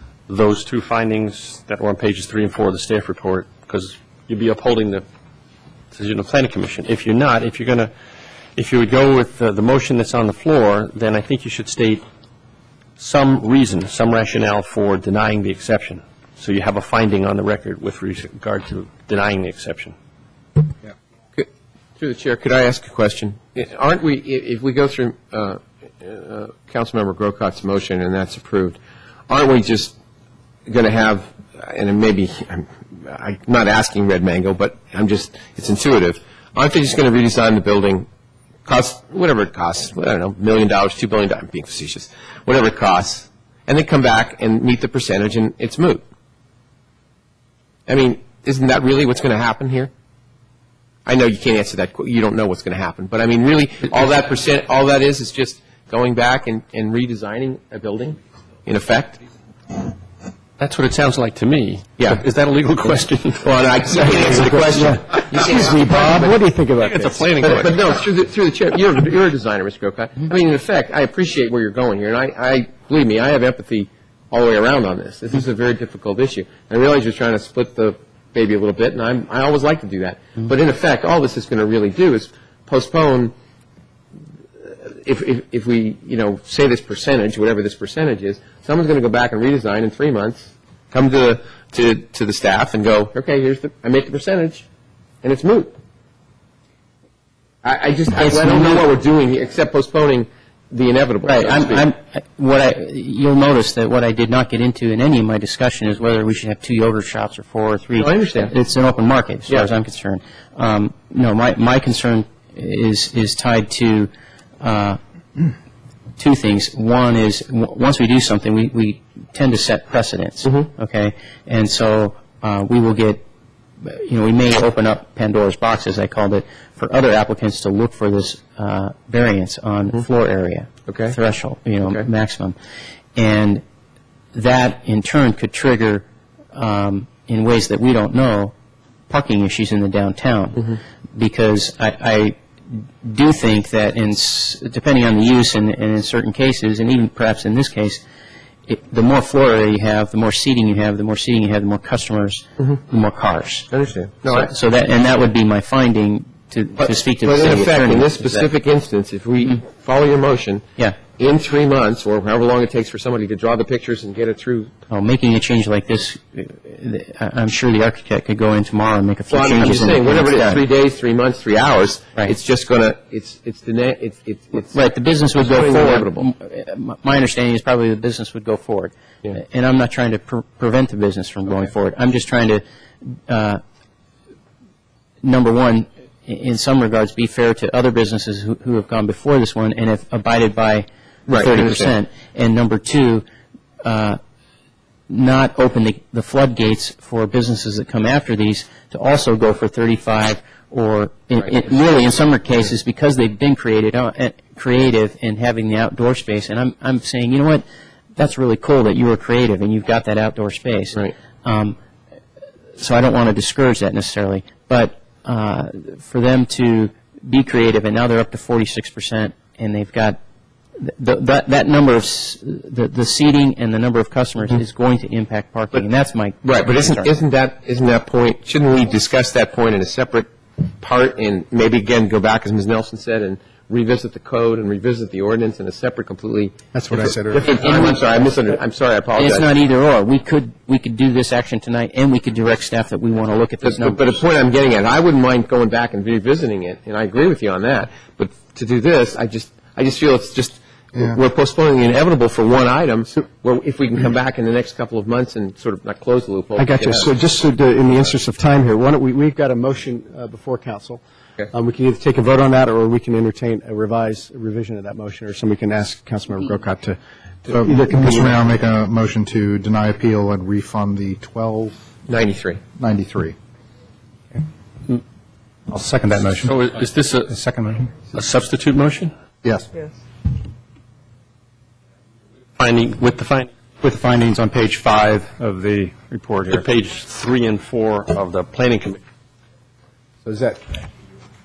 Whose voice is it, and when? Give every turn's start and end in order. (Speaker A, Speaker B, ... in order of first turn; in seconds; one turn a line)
Speaker A: 0.3-5.0
Speaker A: 5.9-7.9
Speaker A: 8.6-12.0
Speaker A: 13.0-19.9
Speaker B: 22.0-28.8
Speaker B: 29.3-29.9
Speaker B: 30.7-38.1
Speaker B: 38.6-46.0
Speaker B: 47.9-49.9
Speaker B: 51.0-59.2
Speaker A: 60.6-63.4
Speaker B: 63.4-66.3
Speaker C: 63.9-67.3
Speaker A: 66.8-67.8
Speaker B: 67.4-83.3
Speaker B: 84.6-94.7
Speaker B: 95.2-95.7
Speaker B: 97.6-101.9
Speaker D: 98.2-98.9
Speaker D: 101.2-114.1
Speaker B: 108.0-108.5
Speaker D: 114.6-115.0
Speaker D: 116.2-123.2
Speaker D: 123.8-132.6
Speaker B: 130.9-131.2
Speaker D: 133.2-133.6
Speaker D: 134.3-138.5
Speaker D: 139.1-142.3
Speaker D: 143.0-148.0
Speaker D: 148.7-153.7
Speaker B: 153.7-154.5
Speaker D: 154.3-158.5
Speaker B: 156.8-164.7
Speaker D: 164.9-170.6
Speaker B: 169.3-174.8
Speaker D: 174.7-183.6
Speaker B: 175.4-176.3
Speaker D: 185.2-193.2
Speaker B: 191.3-191.9
Speaker D: 193.8-194.2
Speaker D: 195.1-207.6
Speaker D: 208.2-211.8
Speaker D: 212.8-220.2
Speaker D: 220.8-227.1
Speaker B: 226.4-239.5
Speaker C: 236.7-237.8
Speaker D: 237.4-238.0
Speaker D: 239.2-244.1
Speaker B: 243.6-257.1
Speaker C: 256.6-268.4
Speaker E: 267.5-271.7
Speaker B: 272.1-272.6
Speaker E: 272.7-273.4
Speaker E: 275.7-276.5
Speaker F: 276.0-276.5
Speaker A: 276.4-277.3
Speaker F: 277.3-277.8
Speaker E: 277.5-277.9
Speaker A: 278.1-279.1
Speaker E: 279.4-279.7
Speaker A: 282.6-283.5
Speaker F: 283.8-286.6
Speaker A: 286.5-289.0
Speaker C: 290.2-290.6